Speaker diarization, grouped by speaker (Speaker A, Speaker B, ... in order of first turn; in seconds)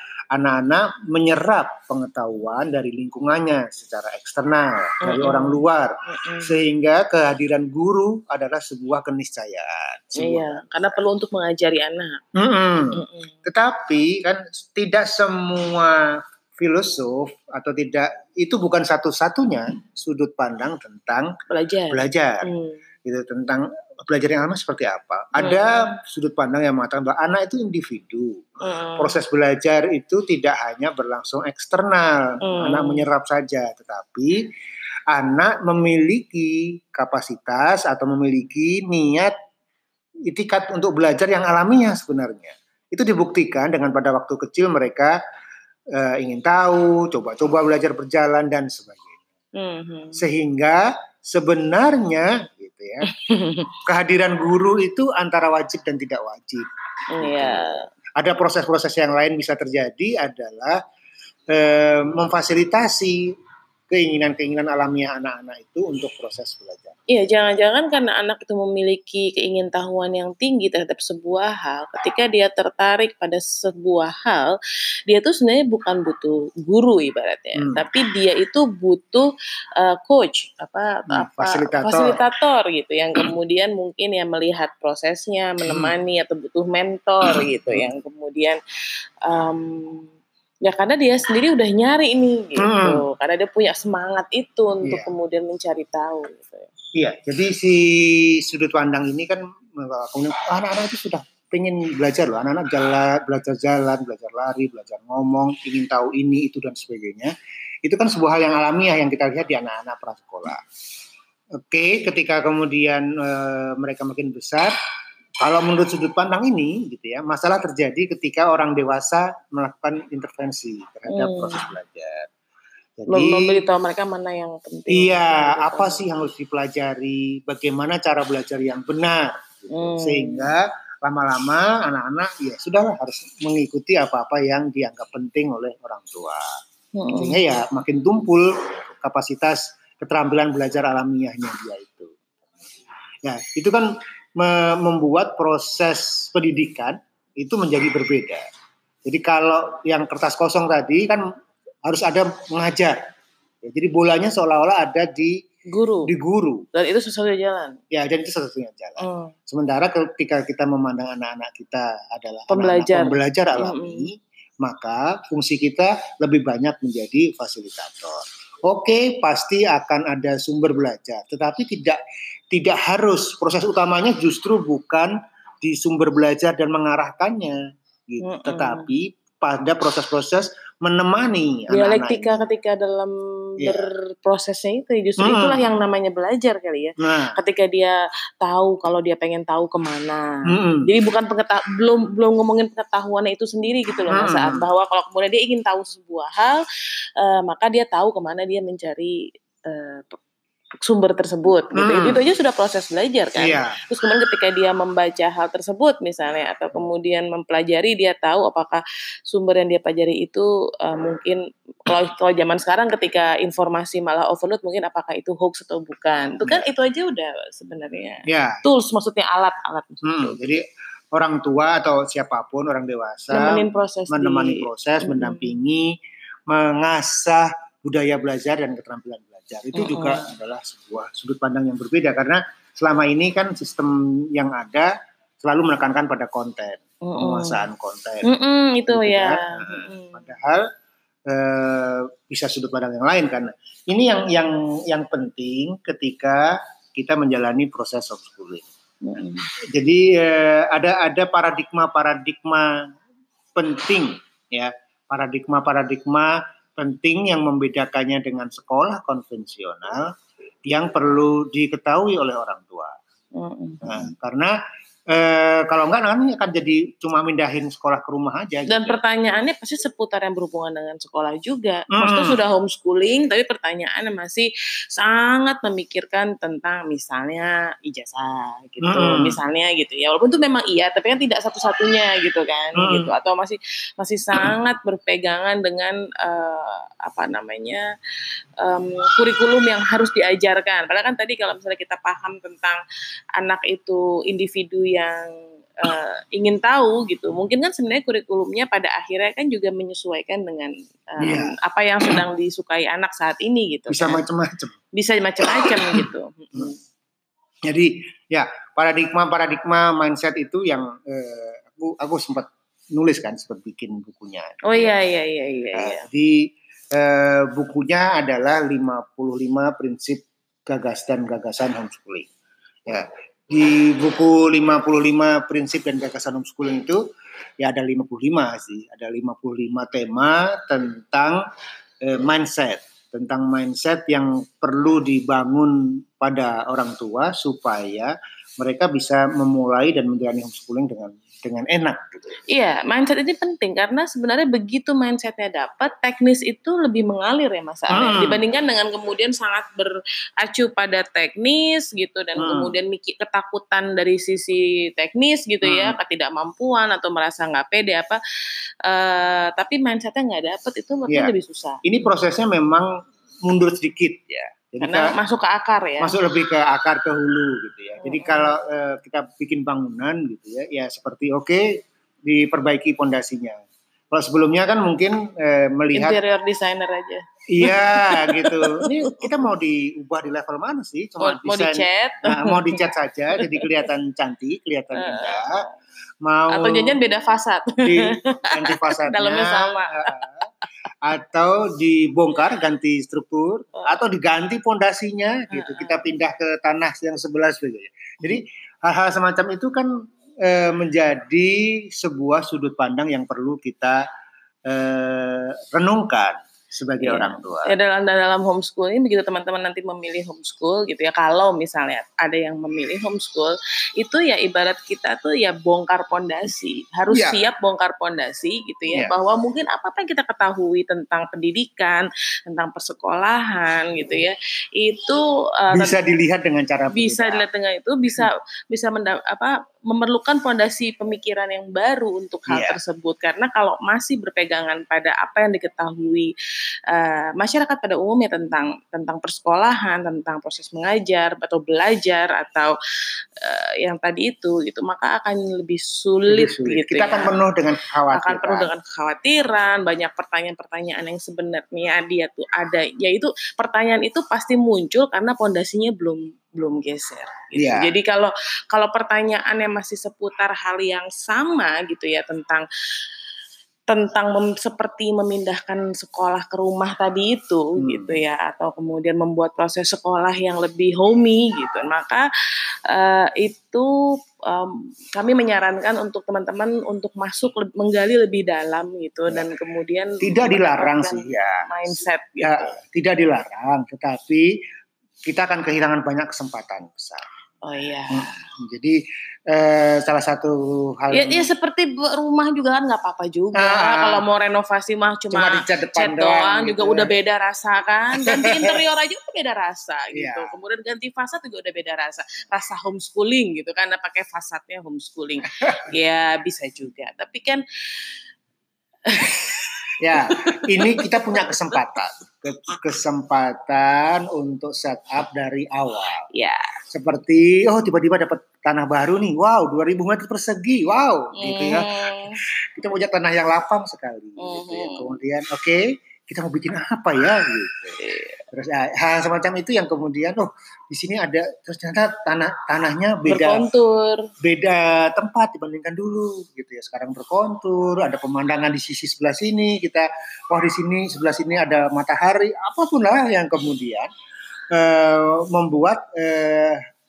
Speaker A: 0.3-11.0, 12.4-21.3, 21.9-22.5, 23.1-34.4, 35.1-39.3, 40.3-45.1, 45.9-49.2, 50.2-53.1, 53.9-56.6, 57.2-60.8, 61.5-63.3, 63.9-66.9, 77.6-77.8, 81.1-82.2, 85.6-85.9, 92.6-93.0, 94.8-95.1, 97.0-107.3, 107.8-110.6, 111.6-114.7, 115.4-122.3, 123.0-123.6, 124.9-136.4, 137.2-142.1, 143.2-148.4, 149.0-151.2, 151.8-153.0, 153.6-155.4, 156.1-156.6, 157.9-172.0, 172.5-182.5, 183.6-183.9, 185.2-185.6, 187.0-187.3, 190.5-190.9, 194.1-194.7, 201.7-202.2, 203.3-203.8, 218.3-218.6, 220.0-225.9, 226.5-234.9, 235.4-238.2, 238.9-240.6, 241.3-248.7, 249.7-252.9, 253.6-260.1, 260.7-262.9, 263.8-264.6, 265.1-269.0, 271.9-272.4, 278.8-279.4, 282.8-283.1, 301.2-301.5, 303.9-304.7, 305.4-306.7, 307.7-314.9, 315.7-322.3, 322.9-327.0, 327.6-331.4, 332.0-342.4, 347.9-348.4, 352.4-352.7, 355.6-356.0, 361.8-362.9, 363.4-365.1, 366.0-371.8, 372.3-373.6, 374.1-376.2, 377.5-385.5, 386.2-387.0, 387.8-390.4, 391.0-399.9, 400.4-404.0, 404.7-407.8, 417.1-417.4, 425.7-427.4, 432.5-432.8, 446.3-448.7, 457.5-457.9, 467.8-468.2, 480.2-484.5, 485.3-487.2, 488.1-489.0, 489.5-491.5, 493.6-494.2, 495.3-497.1, 498.2-498.8, 500.1-500.6, 505.6-505.9, 510.0-516.2, 516.9-521.9, 522.5-528.0, 528.5-533.6, 534.4-544.1, 544.7-546.8
Speaker B: 5.0-6.5, 10.2-12.2, 12.9-13.3, 21.5-22.8, 25.4-25.9, 28.6-29.2, 32.4-33.0, 49.6-50.2, 53.1-53.7, 57.2-57.9, 67.1-74.5, 75.1-88.6, 89.2-90.1, 90.6-96.7, 121.1-121.7, 123.1-126.1, 129.7-130.5, 136.9-137.4, 155.7-156.1, 156.7-157.8, 159.0-159.3, 162.5-164.1, 178.2-178.9, 181.7-196.6, 197.2-200.2, 200.8-220.4, 223.3-225.5, 229.7-230.3, 237.0-237.6, 238.2-240.3, 249.0-249.4, 263.4-264.1, 268.7-287.8, 288.6-292.8, 293.4-304.2, 304.9-306.8, 314.7-316.1, 342.5-358.2, 358.9-361.8, 364.8-366.1, 368.0-368.5, 375.9-379.3, 381.2-382.7, 383.4-383.6, 384.9-385.7, 386.5-390.3, 395.5-396.1, 407.0-425.9, 426.9-436.3, 436.9-442.7, 443.4-447.4, 448.1-462.6, 463.9-472.3, 472.9-473.9, 474.4-482.7, 487.6-488.3, 491.1-507.6, 509.1-511.8, 516.3-516.7, 521.4-522.4, 524.4-525.1, 528.0-528.4, 533.3-534.2